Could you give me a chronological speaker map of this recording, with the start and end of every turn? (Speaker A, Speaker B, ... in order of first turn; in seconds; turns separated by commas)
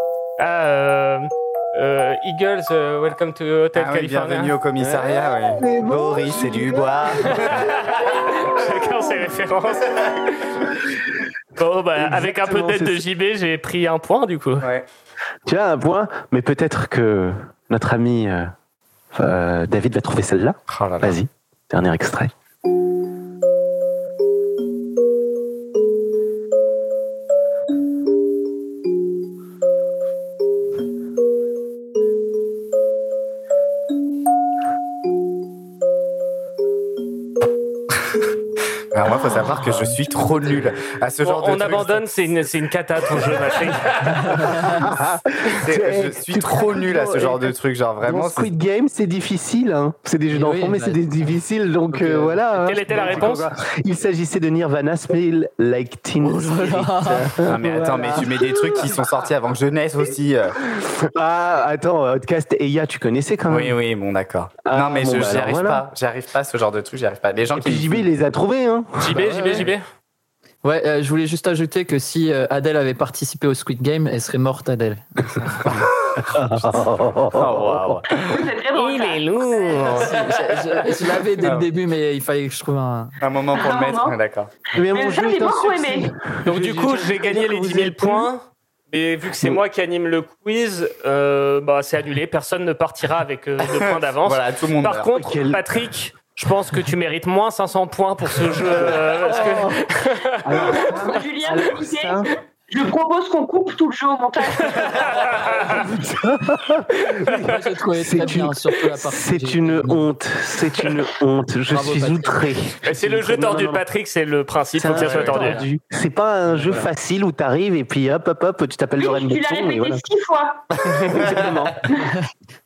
Speaker A: 0.4-4.6, Speaker B: 3.8-7.8, Speaker C: 4.8-7.4, Speaker A: 7.3-10.4, Speaker A: 11.6-14.7, Speaker C: 12.0-13.0, Speaker B: 14.6-14.9, Speaker C: 15.5-18.5, Speaker C: 19.1-22.3, Speaker B: 20.7-21.2, Speaker B: 38.9-42.0, Speaker A: 41.2-44.2, Speaker D: 44.2-44.9, Speaker C: 44.5-47.5, Speaker B: 45.6-48.5, Speaker C: 48.0-59.0, Speaker D: 50.3-51.3, Speaker D: 51.9-53.0, Speaker A: 52.6-53.5, Speaker D: 56.2-57.4, Speaker B: 57.5-60.6, Speaker C: 60.6-63.8, Speaker B: 63.5-68.1, Speaker C: 64.7-65.9, Speaker C: 67.5-69.7, Speaker A: 69.0-69.8, Speaker D: 70.6-75.7, Speaker C: 76.2-78.0, Speaker B: 76.6-76.8, Speaker B: 77.3-78.4, Speaker E: 78.1-80.3, Speaker A: 78.8-80.3, Speaker D: 79.9-83.2, Speaker B: 81.4-81.7, Speaker B: 83.2-84.5, Speaker E: 83.5-84.2, Speaker C: 84.7-88.3, Speaker E: 84.9-86.1, Speaker A: 86.4-100.7, Speaker B: 93.6-95.1, Speaker C: 95.1-95.6, Speaker C: 98.7-99.8, Speaker C: 100.4-102.3, Speaker E: 100.6-105.3, Speaker A: 104.9-105.8, Speaker C: 105.4-113.8, Speaker D: 107.3-110.0, Speaker D: 111.7-112.5, Speaker A: 112.8-115.7, Speaker C: 114.8-120.0, Speaker E: 119.0-120.8, Speaker C: 121.1-121.8